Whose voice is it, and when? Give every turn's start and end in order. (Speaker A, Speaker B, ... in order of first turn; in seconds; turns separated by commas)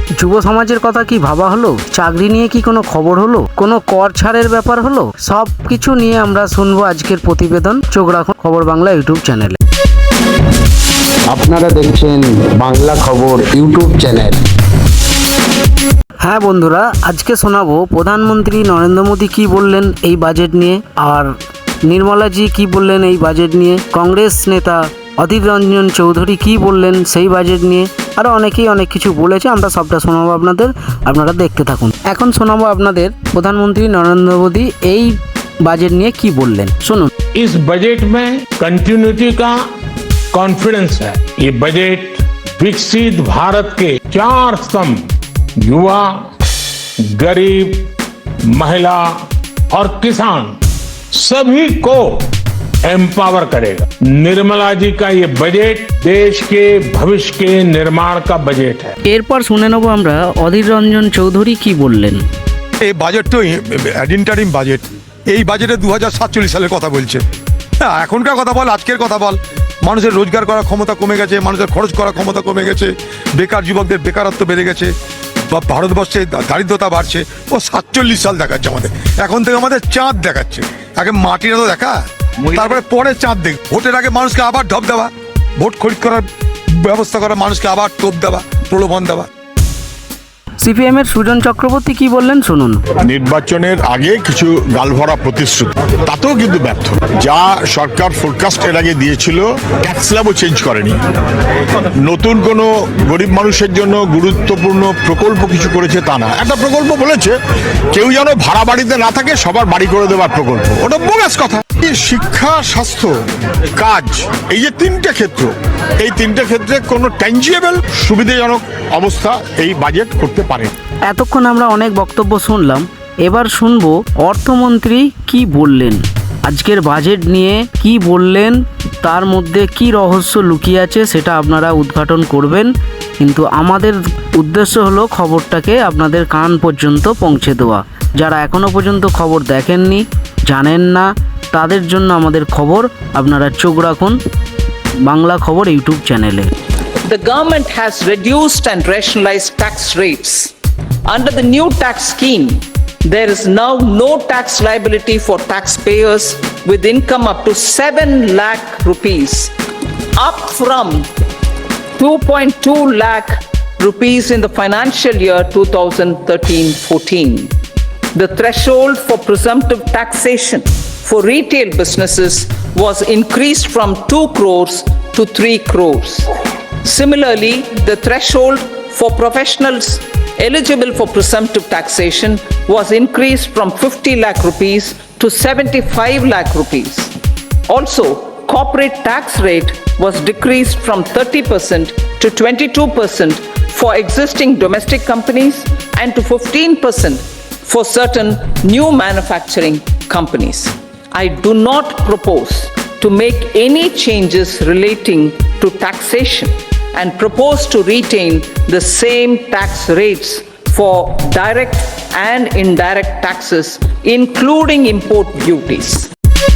Speaker A: 0.2-9.6, Speaker B: 11.3-14.4, Speaker A: 16.2-21.3, Speaker A: 21.9-37.1, Speaker C: 37.4-39.6, Speaker C: 40.3-45.0, Speaker C: 45.6-46.3, Speaker C: 47.0-47.9, Speaker C: 48.5-50.6, Speaker C: 51.1-52.3, Speaker C: 52.8-59.0, Speaker A: 59.0-62.2, Speaker D: 62.8-67.2, Speaker D: 67.8-74.9, Speaker D: 75.5-86.3, Speaker D: 86.8-89.3, Speaker A: 90.6-92.8, Speaker E: 93.0-101.0, Speaker E: 102.0-107.3, Speaker E: 107.9-113.1, Speaker E: 113.8-120.7, Speaker A: 121.1-144.2, Speaker A: 145.0-146.5, Speaker F: 147.1-150.5, Speaker F: 151.1-159.5, Speaker F: 160.2-161.1, Speaker F: 162.0-167.5, Speaker F: 168.2-176.3, Speaker F: 176.8-187.1, Speaker F: 187.7-216.1